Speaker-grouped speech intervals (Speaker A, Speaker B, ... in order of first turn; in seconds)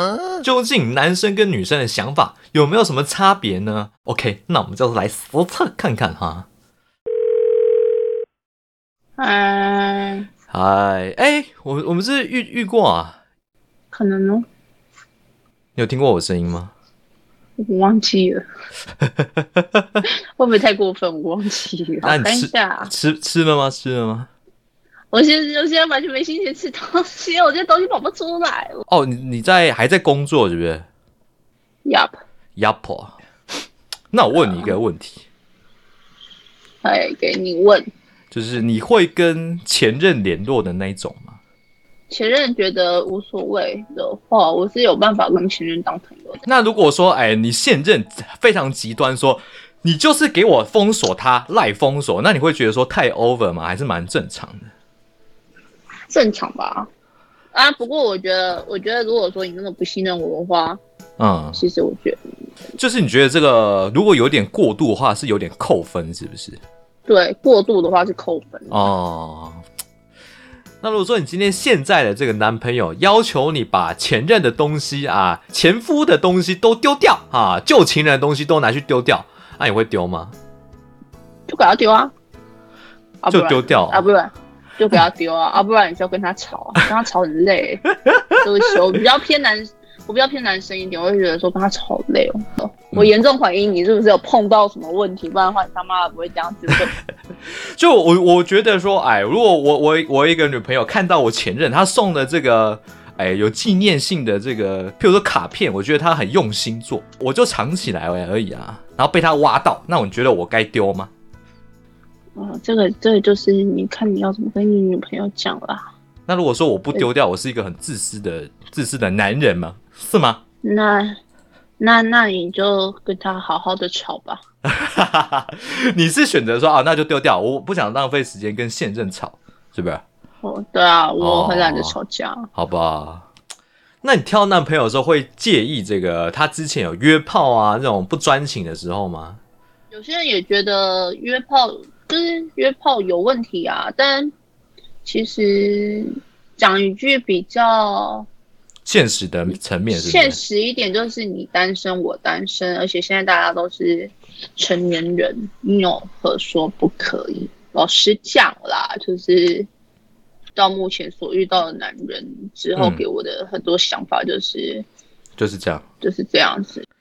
Speaker A: 0.4-6.5, 10.5-13.2, 15.8-16.7, 19.1-19.4, 22.0-24.3, 28.9-30.9, 32.5-33.1, 34.1-35.2, 38.3-41.4, 46.4-54.7, 61.2-61.6, 62.8-66.6, 68.7-69.6, 70.8-80.3, 83.3-84.0, 97.8-111.1, 116.3-120.4, 124.7-130.0, 131.2-132.0, 132.6-133.3, 134.0-139.4, 148.9-150.4, 162.8-163.0, 165.4-165.8
Speaker B: 9.2-10.3, 13.9-14.4, 17.6-18.4, 20.4-22.9, 25.1-28.8, 31.8-32.1, 34.3-34.8, 36.8-37.9, 42.1-46.4, 56.1-56.9, 57.5-60.8, 61.5-62.2, 67.1-68.9, 81.5-82.1, 83.2-87.8, 88.3-96.9, 112.4-115.9, 120.6-121.2, 121.8-124.4, 130.4-132.5, 139.9-144.3, 145.0-148.3, 149.9-159.7, 160.6-164.8, 166.0-166.8